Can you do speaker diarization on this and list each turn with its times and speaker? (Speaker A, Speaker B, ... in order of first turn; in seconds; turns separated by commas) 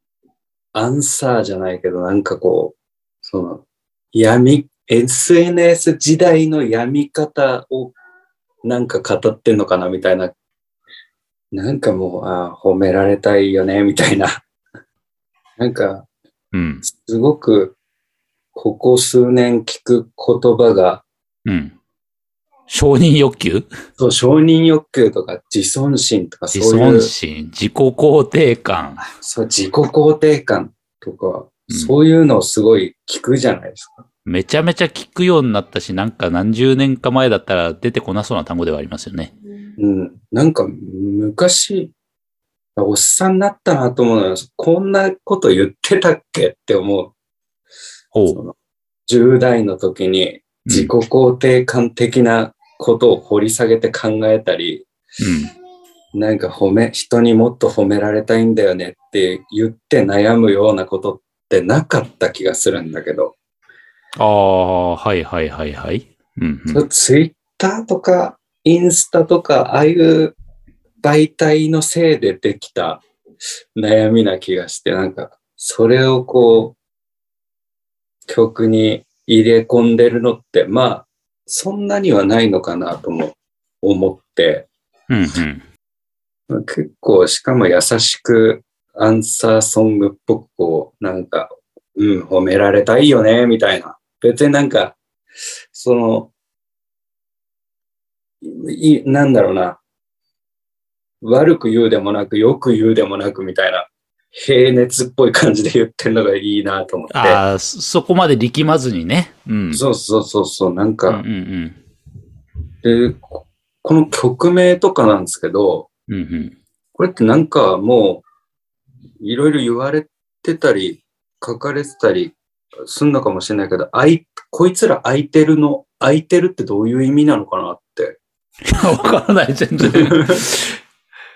Speaker A: 0.7-2.7, Speaker A: 3.3-7.9, Speaker A: 8.6-10.3, Speaker A: 11.5-14.4, Speaker A: 15.6-16.1, Speaker B: 16.5-16.8, Speaker A: 16.8-17.7, Speaker A: 18.5-21.0, Speaker B: 21.4-21.7, Speaker B: 22.7-23.7, Speaker A: 24.0-27.1, Speaker B: 26.5-29.0, Speaker A: 29.0-34.0, Speaker B: 34.2-39.3, Speaker A: 39.8-41.9, Speaker A: 42.8-47.1, Speaker A: 49.1-54.9, Speaker B: 55.2-55.5, Speaker A: 56.1-63.3, Speaker B: 64.2-66.8, Speaker A: 66.7-70.3, Speaker A: 71.0-73.0, Speaker A: 73.8-76.8, Speaker A: 78.3-84.7, Speaker B: 85.1-85.6, Speaker A: 86.5-95.0, Speaker A: 95.7-96.3, Speaker A: 98.4-99.8, Speaker A: 101.2-107.4, Speaker B: 107.1-109.8, Speaker A: 109.7-111.2, Speaker B: 111.1-111.8, Speaker A: 112.8-115.9, Speaker B: 116.1-116.5, Speaker A: 117.0-118.2, Speaker A: 119.2-128.2, Speaker B: 128.6-130.7, Speaker A: 129.8-130.4